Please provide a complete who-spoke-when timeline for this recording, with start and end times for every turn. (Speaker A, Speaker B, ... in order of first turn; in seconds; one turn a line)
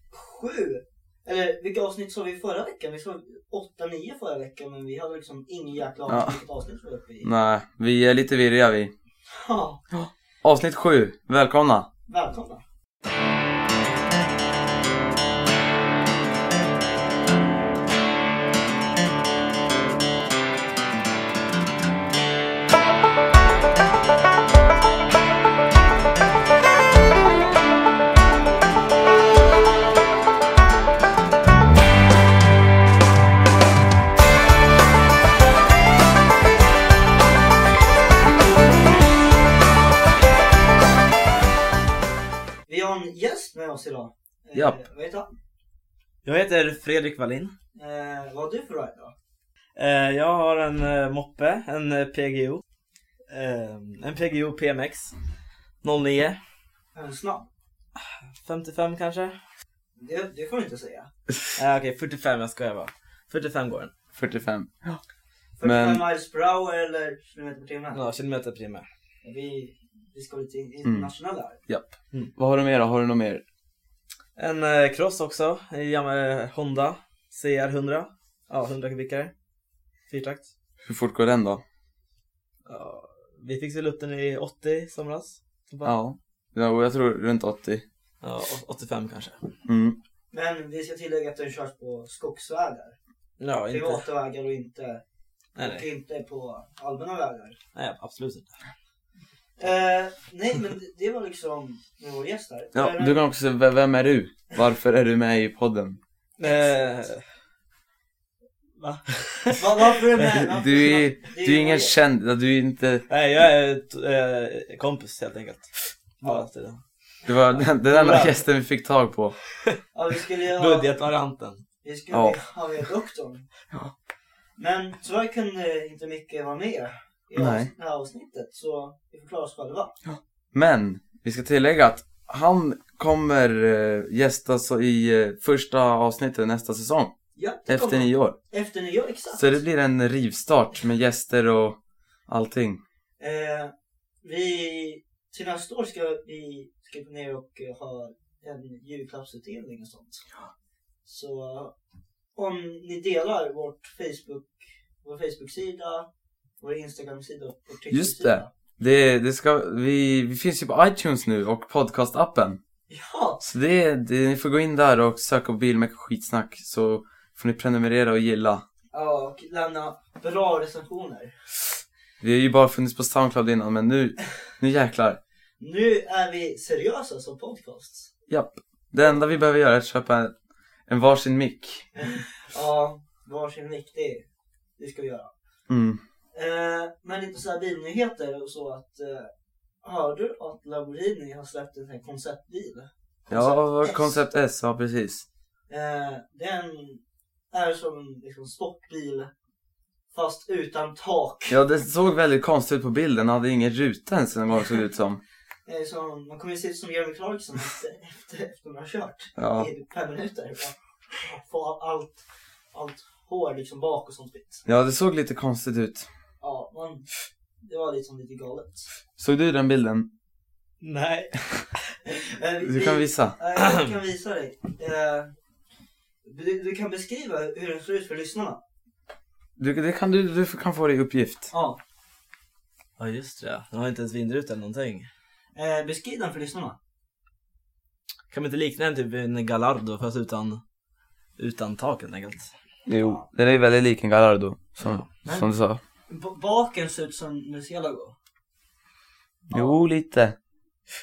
Speaker A: 0.1-7.3
Speaker B: 6.1-6.4
Speaker B: 7.2-8.9
Speaker A: 9.3-9.8
Speaker B: 9.9-11.9
Speaker A: 12.1-12.6
Speaker A: 42.7-45.3
Speaker B: 44.5-44.8
Speaker C: 46.2-47.5
Speaker A: 47.8-49.1
Speaker C: 49.8-52.6
Speaker C: 53.3-55.2
Speaker C: 55.8-56.4
Speaker A: 56.9-57.5
Speaker C: 58.0-59.4
Speaker A: 60.0-61.1
Speaker C: 61.6-63.9
Speaker B: 64.2-65.0
Speaker A: 65.6-68.0
Speaker B: 65.6-66.0
Speaker C: 67.9-68.8
Speaker A: 69.2-71.6
Speaker B: 70.8-71.1
Speaker B: 71.7-73.4
Speaker C: 74.4-79.3
Speaker C: 80.1-80.5
Speaker B: 80.8-81.6
Speaker C: 82.7-85.9
Speaker B: 85.8-87.8
Speaker C: 88.2-89.5
Speaker B: 89.7-90.0
Speaker A: 90.3-93.0
Speaker C: 93.4-94.1
Speaker A: 93.7-95.0
Speaker C: 95.6-95.9
Speaker A: 95.6-97.6
Speaker C: 97.8-98.6
Speaker A: 99.6-103.2
Speaker B: 102.7-106.0
Speaker C: 106.4-107.2
Speaker A: 106.4-106.7
Speaker C: 108.8-110.5
Speaker A: 109.6-112.0
Speaker B: 110.5-113.0
Speaker C: 113.1-116.8
Speaker B: 117.3-119.4
Speaker C: 117.5-118.5
Speaker A: 119.9-120.9
Speaker C: 120.5-121.6
Speaker A: 121.8-123.5
Speaker B: 122.1-122.4
Speaker A: 124.6-130.0
Speaker B: 127.4-127.7
Speaker B: 130.1-137.1
Speaker A: 137.4-139.6
Speaker B: 137.7-138.4
Speaker B: 139.3-142.8
Speaker A: 143.2-143.7
Speaker A: 144.2-150.3
Speaker A: 151.1-151.7
Speaker A: 152.3-156.1
Speaker A: 156.6-158.5
Speaker B: 157.9-162.6
Speaker A: 162.9-163.4
Speaker B: 163.4-168.7
Speaker A: 168.9-171.3
Speaker B: 172.2-175.2
Speaker A: 175.6-178.1
Speaker B: 178.3-180.3
Speaker B: 180.9-181.9
Speaker A: 182.0-184.3
Speaker A: 184.8-185.3
Speaker B: 185.7-186.0
Speaker A: 186.3-189.3
Speaker A: 189.8-194.2
Speaker B: 193.3-195.2
Speaker A: 195.7-199.3
Speaker A: 200.1-201.6
Speaker B: 201.5-205.2
Speaker A: 205.7-214.6
Speaker B: 209.4-209.7
Speaker B: 214.7-216.1
Speaker A: 216.4-217.1
Speaker A: 217.6-218.9
Speaker B: 219.2-220.1
Speaker C: 220.8-221.6
Speaker A: 222.0-225.3
Speaker B: 222.6-223.4
Speaker C: 223.6-223.9
Speaker A: 226.2-228.6
Speaker B: 229.6-231.5
Speaker A: 231.5-231.8
Speaker C: 233.0-235.1
Speaker A: 235.6-236.8
Speaker C: 238.3-240.6
Speaker C: 241.4-242.5
Speaker B: 242.9-245.8
Speaker A: 243.0-243.2
Speaker A: 245.2-245.5
Speaker A: 246.1-248.2
Speaker B: 249.5-250.4
Speaker A: 249.5-249.8